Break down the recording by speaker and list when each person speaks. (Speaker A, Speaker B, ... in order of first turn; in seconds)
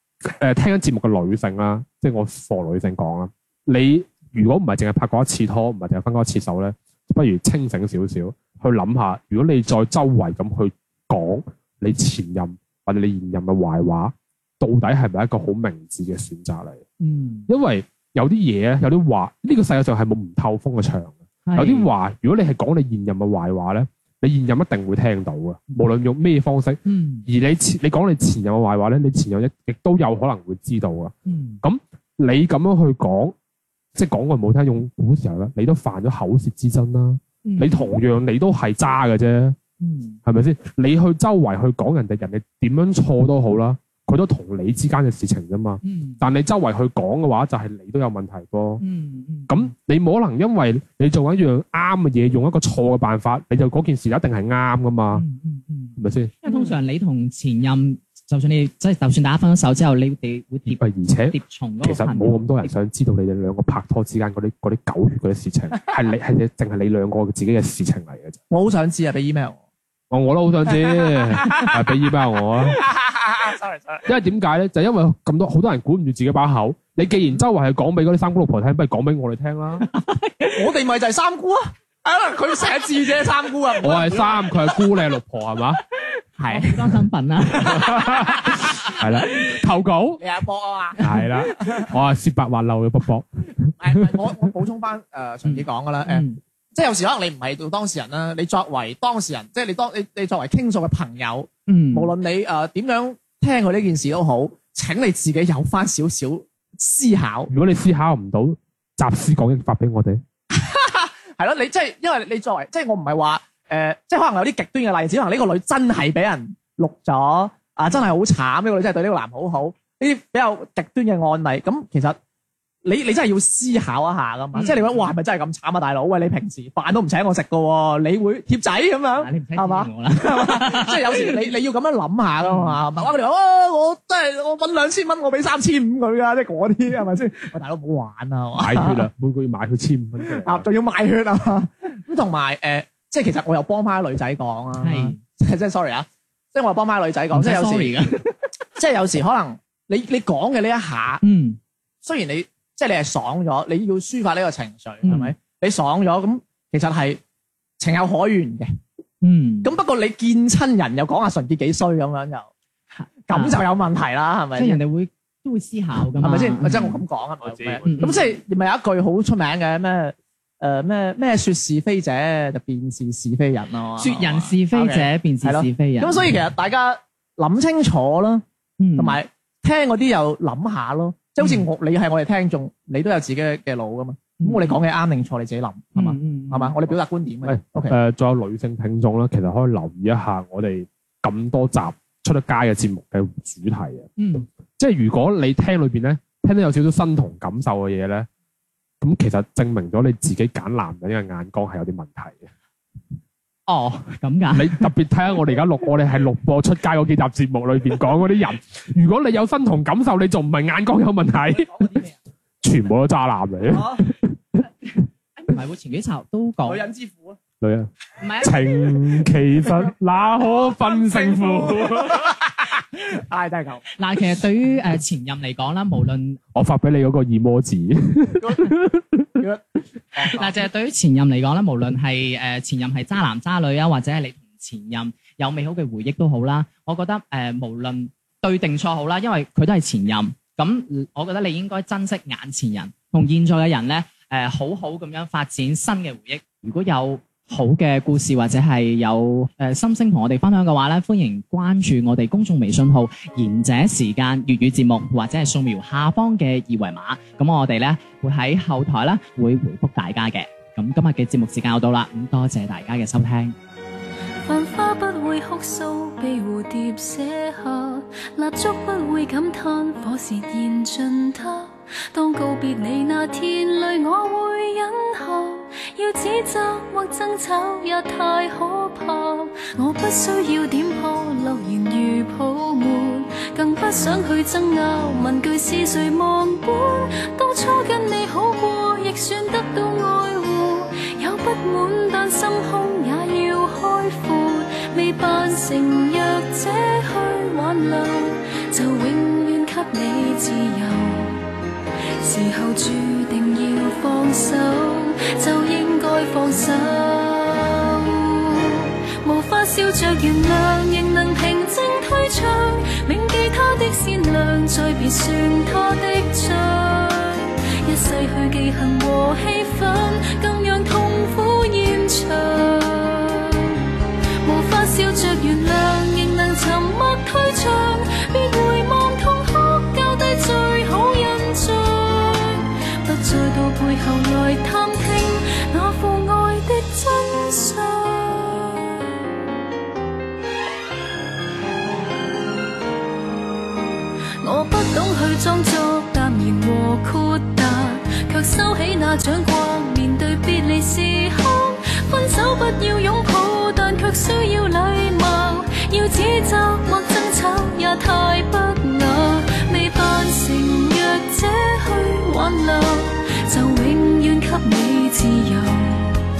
Speaker A: 0.2-16.8, 17.5-33.3, 33.9-39.6, 40.2-48.8, 49.5-55.2, 56.0-56.4, 60.7-68.4, 70.1-72.8, 74.0-79.9, 83.8-85.8, 87.6-90.2, 91.0-93.7, 107.5-110.2, 138.6-140.7, 167.4-167.9, 187.4-194.1, 194.8-198.3, 199.0-202.4, 204.5-211.7, 212.6-214.3, 217.6-217.9, 218.4-222.4, 226.5-229.2
Speaker B: 17.0-17.5, 21.4-21.9, 26.9-27.2, 31.2-31.6, 37.4-38.0, 39.8-40.2, 45.8-46.2, 48.8-49.7, 55.1-62.7, 79.9-80.6, 86.4-89.5, 91.0-91.3, 95.4-96.4, 101.7-102.1, 124.5-125.1, 129.2-131.5, 132.4-132.8, 144.8-145.2, 147.3-148.3, 151.2-151.6, 155.0-155.3, 159.2-159.7, 163.0-163.6, 164.6-167.0, 167.8-168.3, 174.0-176.3, 178.8-179.2, 181.4-181.7, 184.4-184.8, 185.9-186.7, 194.2-194.4, 203.7-204.9, 214.9-216.8, 218.2-219.1, 224.0-226.4, 230.2-263.6
Speaker C: 68.5-69.6, 70.7-71.9, 72.7-74.0, 80.5-84.5, 86.4-86.7, 90.2-91.0, 93.8-107.5, 110.5-122.2, 122.8-139.0, 140.3-148.1, 148.8-151.2, 152.0-157.2, 157.8-158.7, 159.6-162.5, 163.3-164.8, 166.2-178.4, 178.9-187.9, 211.4-212.2, 213.7-214.1, 216.7-217.4, 220.2-223.8, 228.4-228.7, 230.1-230.6
Speaker D: 264.4-301.4, 302.2-323.9, 324.4-339.0, 344.4-366.2